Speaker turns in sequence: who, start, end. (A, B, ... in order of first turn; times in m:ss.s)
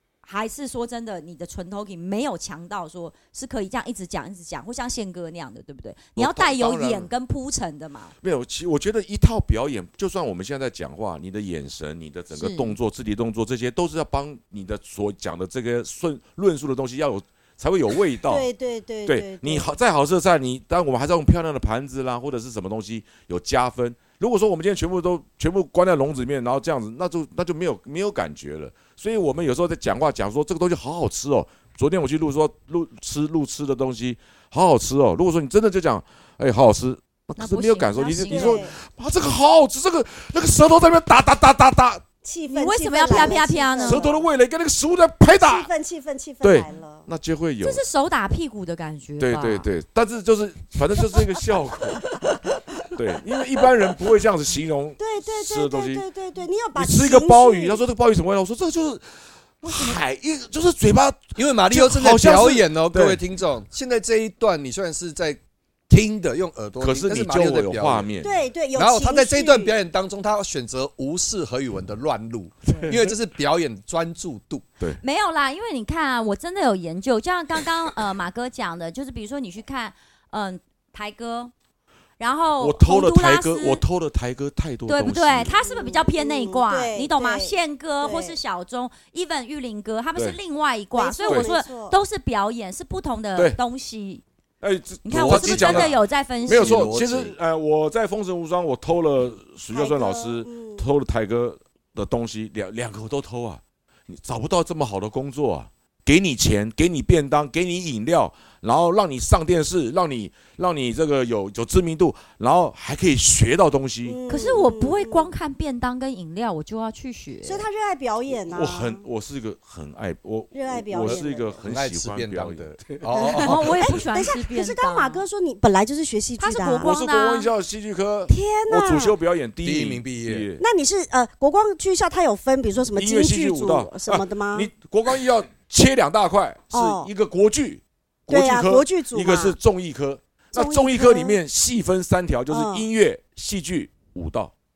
0:00.2-0:08.1 A
0:06.2-0:07.1 B
0:08.2-0:18.5 B
0:12.3-0:12.8 A
0:18.3-0:19.7 C
0:19.1-0:42.0 B
0:37.4-0:38.7 A
0:38.3-0:38.7 C
0:42.2-0:44.2 C
0:42.5-0:44.1 A
0:43.1-0:45.7 B
0:45.2-0:47.0 C
0:46.4-0:47.8 B
0:47.6-0:49.7 A
0:49.2-0:52.2 B
0:52.9-0:56.0 B
0:55.0-0:57.8 C
0:56.8-1:03.2 B
1:01.4-1:08.1 D
1:06.8-1:08.4 B
1:08.2-1:09.7 C
1:08.8-1:14.6 D
1:12.7-1:13.1 B
1:15.0-1:21.5 A
1:22.2-1:23.8 A
1:22.6-1:25.6 B
1:24.9-1:34.2 A
1:25.6-1:28.4 C
1:31.0-1:32.0 C
1:34.6-1:54.2 B
1:35.0-1:36.9 A
1:35.1-1:37.4 D
1:39.7-1:40.9 C
1:54.0-1:55.3 C
1:54.3-1:57.6 A
1:57.4-1:59.0 C
1:58.3-2:02.9 B
2:00.5-2:01.6 C
2:00.9-2:03.9 D
2:03.2-2:06.9 C
2:03.4-2:05.3 A
2:06.4-2:07.5 A
2:06.8-2:10.6 B
2:08.3-2:09.2 C
2:09.6-2:10.5 D
2:10.6-2:14.7 C
2:13.0-2:24.5 B
2:16.7-2:17.1 C
2:18.3-2:19.6 C
2:20.6-2:21.4 C
2:22.5-2:22.8 C